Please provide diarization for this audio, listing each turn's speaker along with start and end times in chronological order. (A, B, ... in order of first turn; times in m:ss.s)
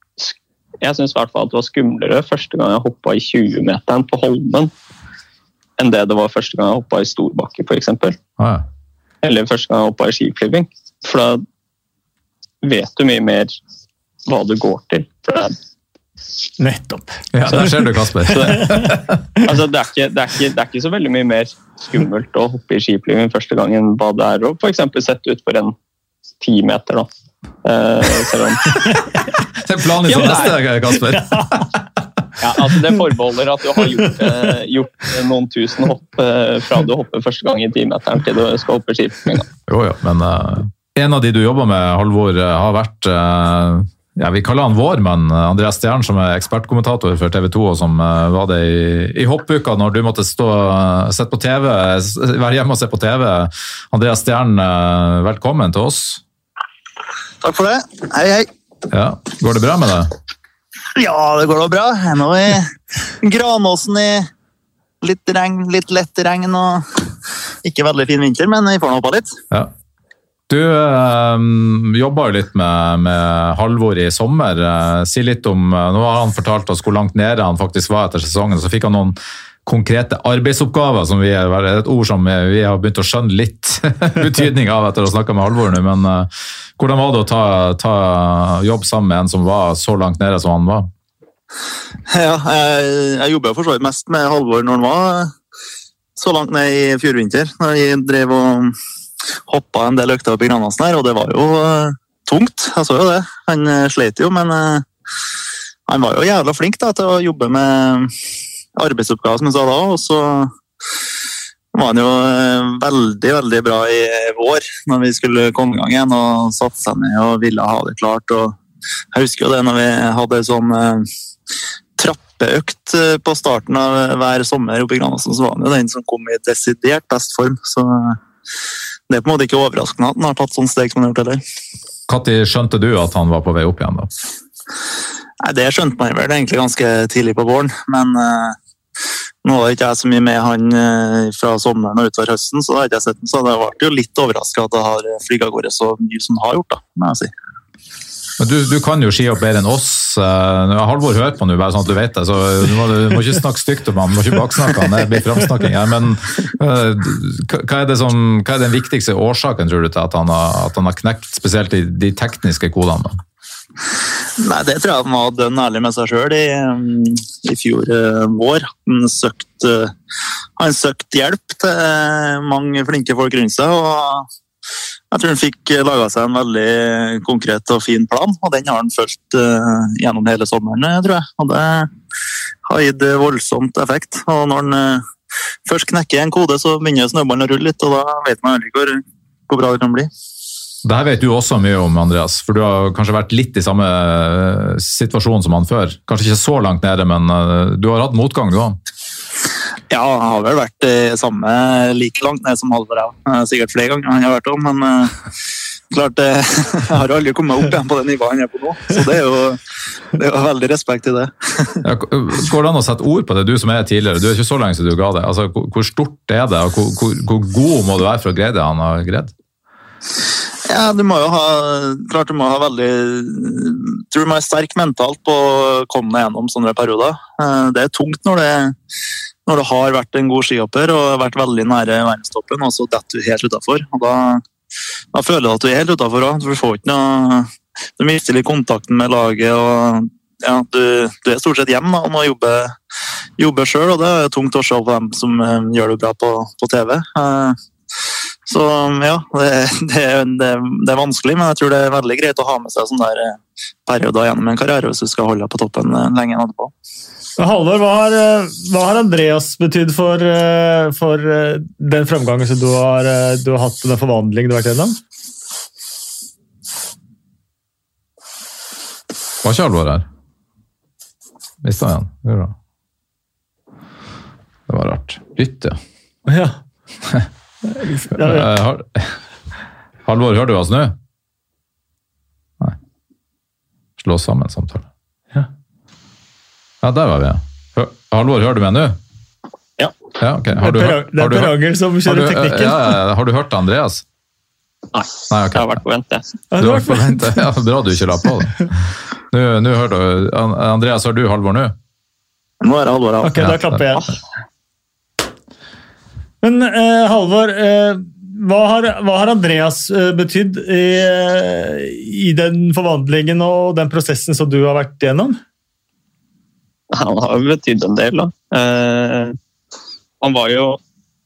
0:00.2-0:04.7 A
0:05.8-0:08.2 A
0:08.4-0:08.6 B
0:09.2-0:11.4 A
0:12.6-0:13.6 A
0:14.3-0:15.6 A
0:16.6-0:19.0 C
0:17.3-0:19.2 B
0:19.4-0:25.7 A
0:26.4-0:27.1 A
0:27.6-0:28.8 A
0:29.6-0:31.8 B
0:30.0-0:31.6 C
0:32.4-0:39.5 A
0:34.0-0:34.5 C
0:39.7-0:56.2 B
0:57.4-0:58.5 D
0:58.9-1:00.1 B
1:01.0-1:04.3 D
1:05.0-1:07.1 D
1:07.6-1:09.3 D
1:10.5-1:30.9 B
1:32.1-1:35.3 D
1:36.2-1:38.8 D
1:39.5-1:44.9 D
1:45.9-1:48.1 D
1:48.8-1:50.5 D
1:51.7-1:58.6 D
1:59.1-2:01.1 D
2:02.0-2:08.2 D
2:09.1-2:11.4 D
2:12.1-2:14.1 B
2:15.4-2:18.6 D
2:19.4-2:27.3 D
2:28.4-2:43.2 B
2:44.4-2:49.9 D
2:50.6-2:54.3 D
2:55.1-3:01.9 D
3:02.7-3:05.0 D
3:05.7-3:10.1 D
3:10.8-3:18.8 B
3:19.9-3:25.2 D
3:25.9-3:29.6 D
3:30.1-3:31.8 D
3:31.8-3:39.3 B
3:40.7-3:48.8 D
3:49.5-3:54.4 D
3:55.1-4:02.8 D
4:03.4-4:07.6 D
4:08.5-4:16.7 D
4:17.4-4:25.0 C
4:29.4-4:30.1 B
4:31.6-4:32.5 B
4:34.7-4:35.8 B
4:36.3-4:36.6 C
4:37.8-4:38.5 C
4:38.1-4:39.2 B
4:40.1-4:40.9 B
4:44.0-4:44.9 B
4:46.8-4:49.0 B
4:50.2-4:54.0 B
4:50.6-4:52.9 C
4:54.9-4:56.3 A
4:55.3-4:55.7 B
4:56.5-4:57.2 C
4:56.6-5:01.8 B
5:02.6-5:03.4 D
5:03.2-5:04.1 C
5:03.4-5:03.8 B
5:06.4-5:15.4 C
5:16.9-5:19.4 A
5:20.2-5:20.8 A